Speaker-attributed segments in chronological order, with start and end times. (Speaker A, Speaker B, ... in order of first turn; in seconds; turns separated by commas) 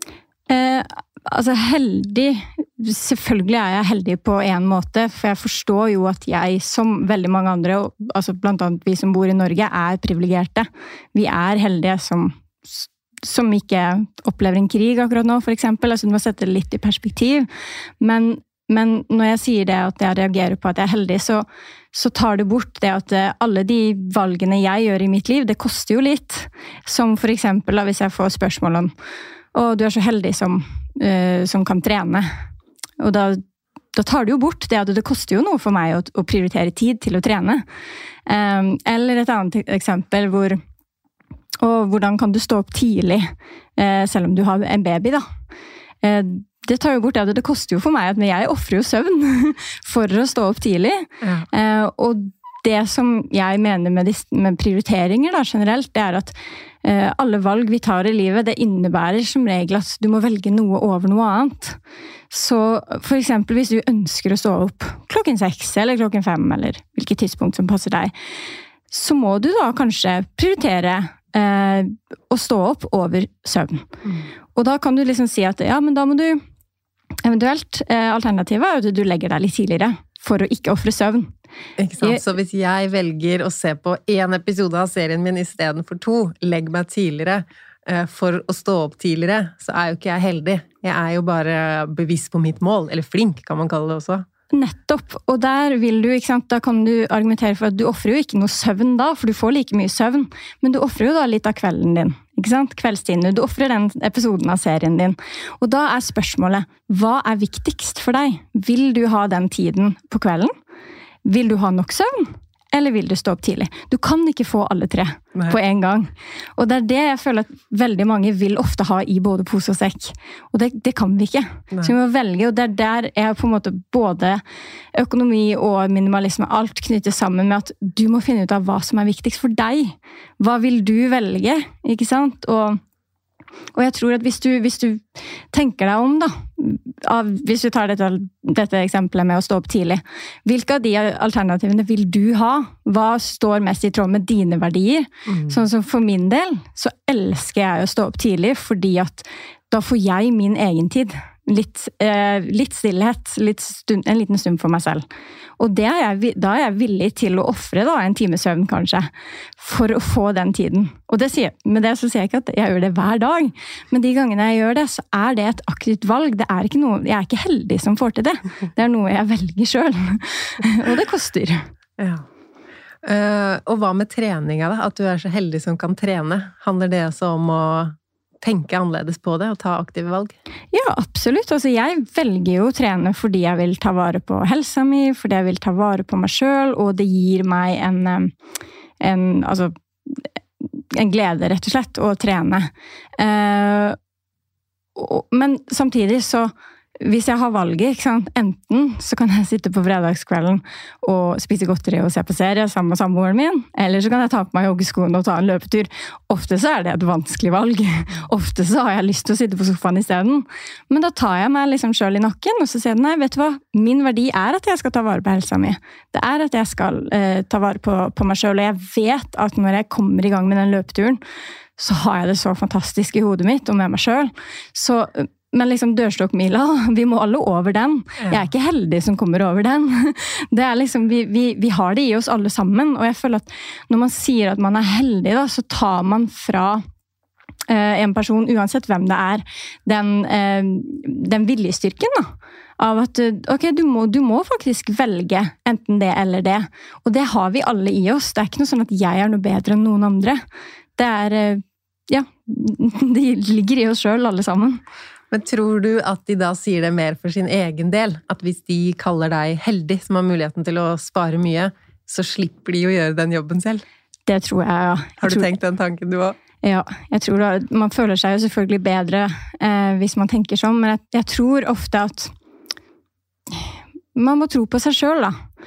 Speaker A: 0.5-17.5, Speaker A: 18.0-28.9, Speaker A: 29.5-32.3, Speaker A: 33.0-33.4, Speaker A: 33.9-37.6, Speaker A: 38.3-40.6, Speaker A: 41.6-45.2, Speaker A: 46.0-61.8, Speaker A: 62.3-68.1, Speaker A: 68.9-73.8, Speaker A: 74.5-76.4, Speaker A: 77.2-81.3, Speaker B: 81.8-94.2, Speaker A: 94.5-110.5, Speaker A: 111.2-124.4, Speaker A: 124.9-132.8, Speaker A: 133.7-155.0, Speaker B: 145.3-145.6, Speaker A: 155.6-171.7, Speaker B: 172.0-172.2, Speaker B: 173.0-180.3, Speaker A: 180.7-188.3, Speaker A: 189.0-194.0, Speaker A: 194.9-221.2, Speaker A: 221.8-236.8, Speaker A: 237.7-250.4, Speaker A: 251.0-254.8, Speaker B: 255.3-263.8, Speaker A: 264.3-265.5, Speaker B: 265.2-266.4, Speaker A: 266.6-272.3, Speaker A: 273.5-275.3